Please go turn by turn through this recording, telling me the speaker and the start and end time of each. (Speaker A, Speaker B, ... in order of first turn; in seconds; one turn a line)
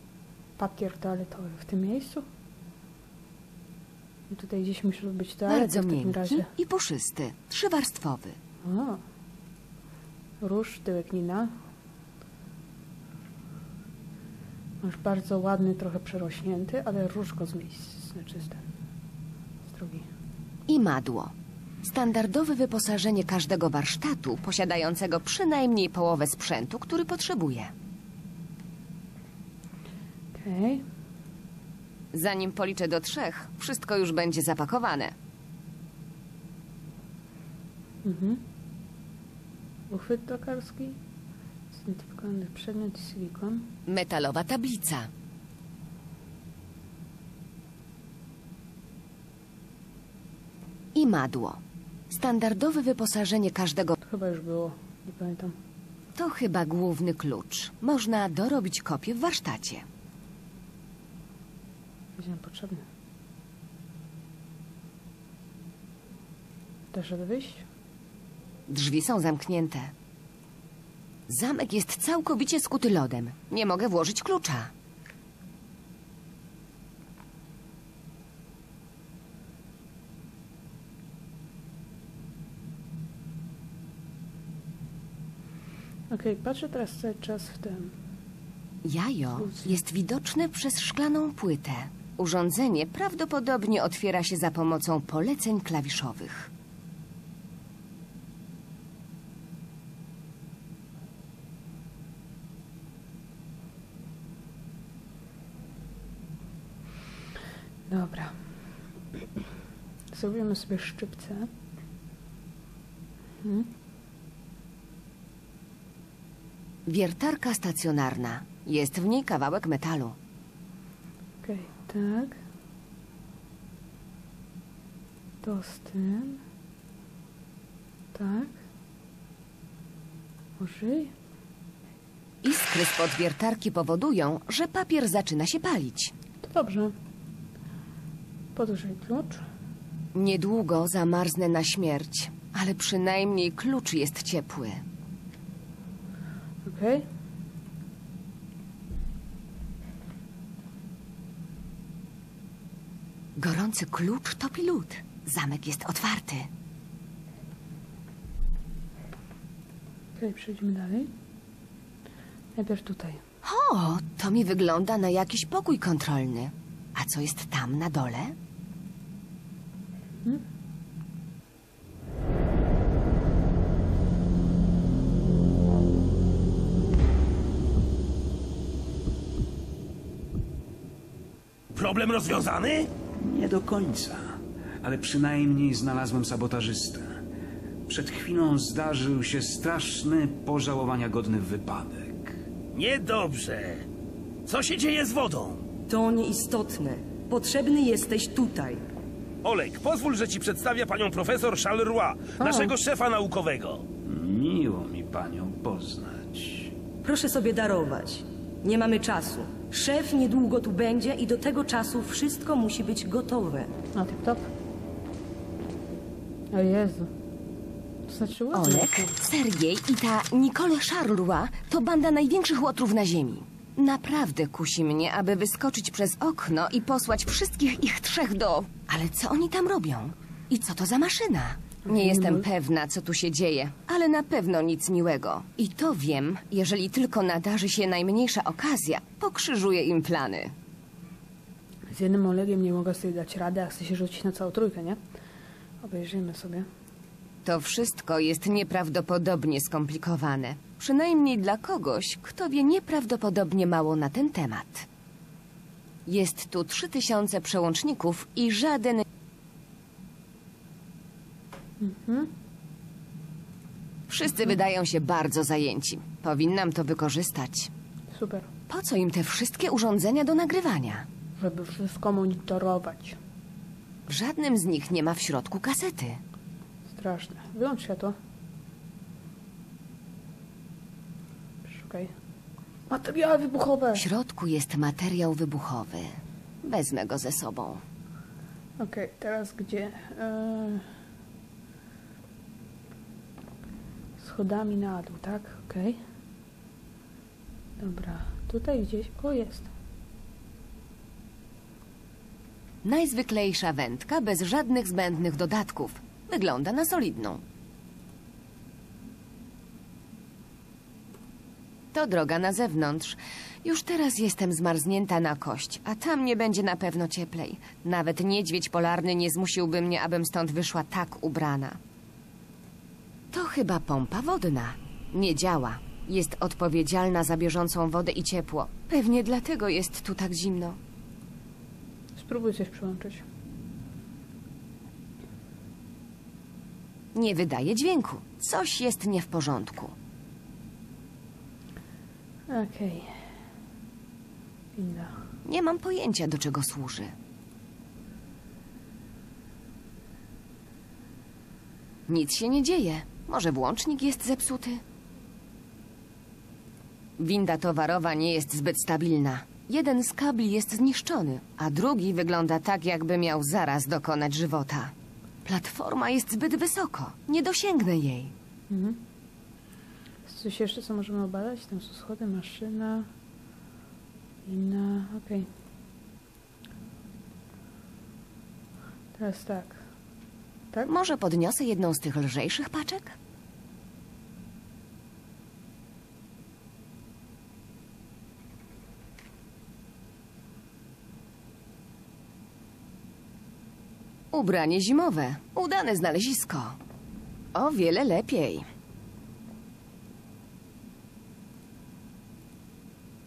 Speaker A: 0.6-2.2
Speaker A: 4.3-6.5
Speaker B: 5.5-8.4
Speaker A: 8.6-9.0
Speaker A: 10.4-11.5
Speaker A: 14.8-18.6
Speaker A: 19.7-20.1
Speaker B: 20.7-21.3
Speaker B: 21.8-27.7
Speaker A: 30.3-30.8
Speaker B: 32.1-35.1
Speaker A: 38.0-38.4
Speaker A: 39.9-41.0
Speaker A: 41.7-43.7
Speaker B: 43.9-45.1
Speaker B: 50.9-51.6
Speaker B: 52.1-53.9
Speaker A: 54.0-55.5
Speaker B: 56.1-59.8
Speaker A: 62.2-62.8
Speaker A: 66.9-67.7
Speaker B: 68.7-69.9
Speaker B: 71.3-74.7
Speaker A: 86.1-87.9
Speaker B: 88.8-96.5
Speaker A: 89.4-89.8
Speaker A: 107.9-108.3
Speaker A: 110.1-111.5
Speaker A: 113.4-113.7
Speaker B: 116.8-120.2
Speaker A: 121.4-122.4
Speaker A: 125.4-126.4
Speaker A: 128.1-128.6
Speaker A: 130.6-131.1
Speaker B: 132.4-136.1
Speaker A: 136.4-136.9
Speaker A: 138.5-139.4
Speaker B: 140.1-144.8
Speaker A: 146.6-147.1
Speaker B: 153.3-156.5
Speaker A: 160.2-161.1
Speaker A: 162.6-163.2
Speaker B: 163.4-168.3
Speaker C: 181.7-182.9
Speaker D: 183.2-187.2
Speaker D: 187.9-192.4
Speaker C: 192.7-193.8
Speaker C: 194.4-195.7
Speaker E: 195.9-198.8
Speaker C: 199.4-203.8
Speaker A: 202.4-202.7
Speaker D: 204.0-206.7
Speaker E: 207.0-213.7
Speaker A: 213.9-214.5
Speaker A: 216.5-217.1
Speaker A: 218.1-219.2
Speaker B: 218.5-240.5
Speaker A: 231.8-232.4
Speaker A: 241.9-245.0
Speaker A: 245.8-246.7
Speaker B: 247.4-254.8
Speaker B: 256.1-259.0
Speaker A: 261.8-262.3
Speaker B: 264.1-267.7
Speaker A: 268.1-268.5
Speaker B: 268.7-271.1
Speaker A: 271.4-273.2
Speaker B: 274.1-276.2
Speaker A: 276.9-278.1
Speaker A: 281.6-282.1
Speaker A: 282.9-284.0
Speaker B: 283.9-287.8
Speaker A: 288.8-290.9
Speaker A: 294.2-296.0
Speaker A: 297.8-299.7
Speaker B: 302.8-307.4
Speaker B: 311.9-321.8
Speaker B: 323.3-330.8
Speaker A: 332.1-333.2
Speaker B: 337.1-339.9
Speaker A: 342.5-343.2
Speaker A: 344.8-345.2
Speaker B: 345.4-347.1
Speaker B: 352.1-354.8
Speaker B: 357.2-364.9
Speaker B: 365.4-368.3
Speaker A: 368.7-369.0
Speaker A: 370.2-373.1
Speaker A: 374.4-375.5
Speaker A: 379.1-379.8
Speaker B: 380.9-383.1
Speaker B: 394.3-396.8
Speaker B: 397.5-398.7